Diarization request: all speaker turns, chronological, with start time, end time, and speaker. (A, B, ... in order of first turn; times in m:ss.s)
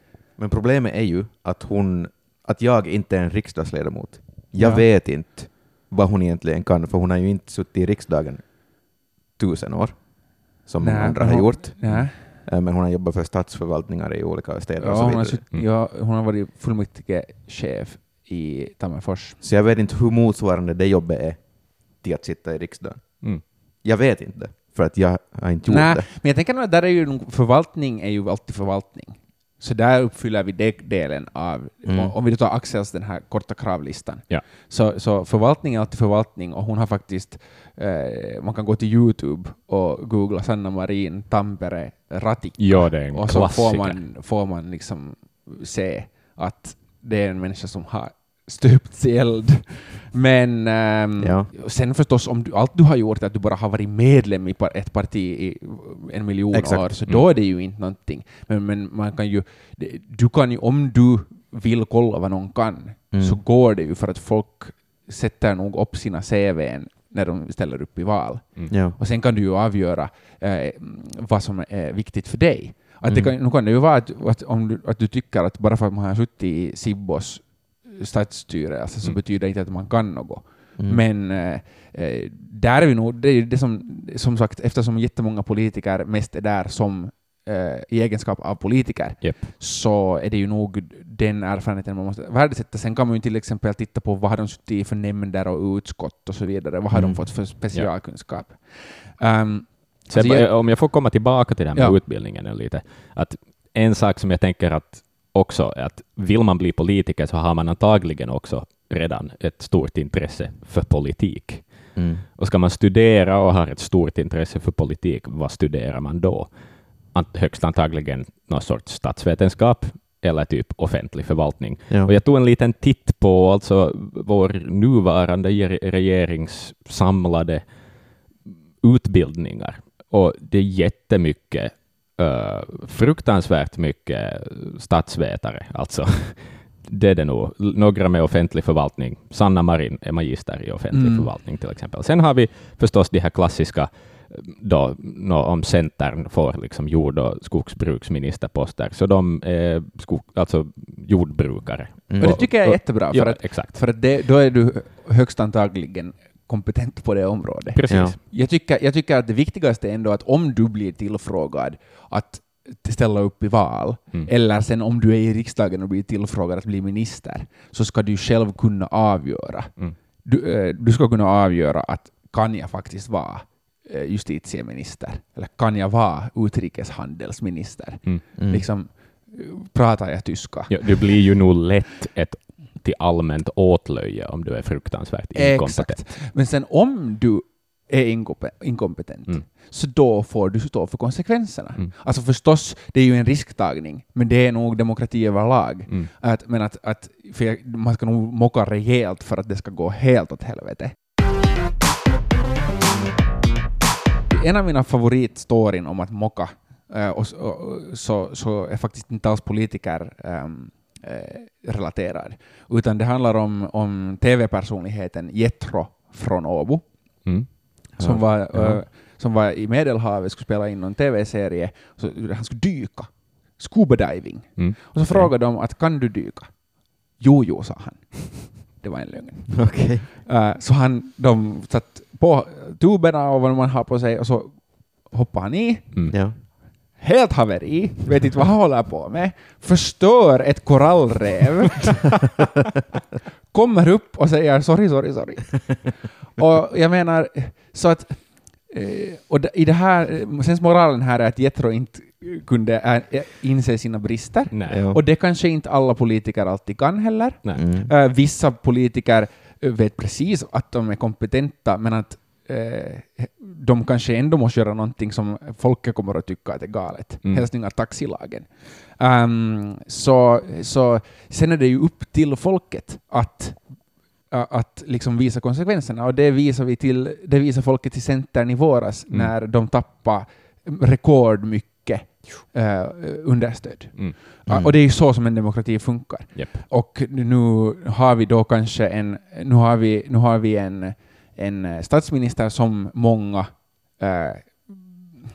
0:00.4-0:15.4 A
0:04.6-0:04.8 B
0:10.8-0:12.3 B
0:14.8-0:19.4 B
0:19.4-0:26.1 A
0:25.7-1:40.5 B
0:31.8-0:32.1 A
0:42.6-0:44.0 C
0:51.2-0:51.5 A
0:56.5-0:56.9 A
1:03.1-1:03.4 A
1:08.7-1:09.0 A
1:13.1-1:13.3 A
1:20.8-1:21.0 A
1:29.2-1:29.5 C
1:36.9-1:37.3 A
1:40.1-2:33.8 C
1:41.7-1:42.0 B
1:51.9-1:52.2 A
2:20.9-2:21.3 B
2:32.1-2:32.4 A
2:32.2-3:01.0 B
2:37.7-2:38.2 C
2:37.9-2:38.2 A
2:58.4-2:58.6 A
3:00.7-3:06.0 C
3:05.3-3:20.9 B
3:24.3-3:37.3 B
3:37.2-3:37.6 C
3:38.0-3:38.8 A
3:38.0-4:02.0 B
3:44.6-3:45.2 C
3:49.5-3:50.1 A
3:56.1-3:56.4 A
4:03.5-4:55.2 B
4:14.5-4:14.8 C
4:14.7-4:15.0 A
4:17.6-4:17.9 A
4:44.5-4:44.7 A
4:46.3-4:46.6 C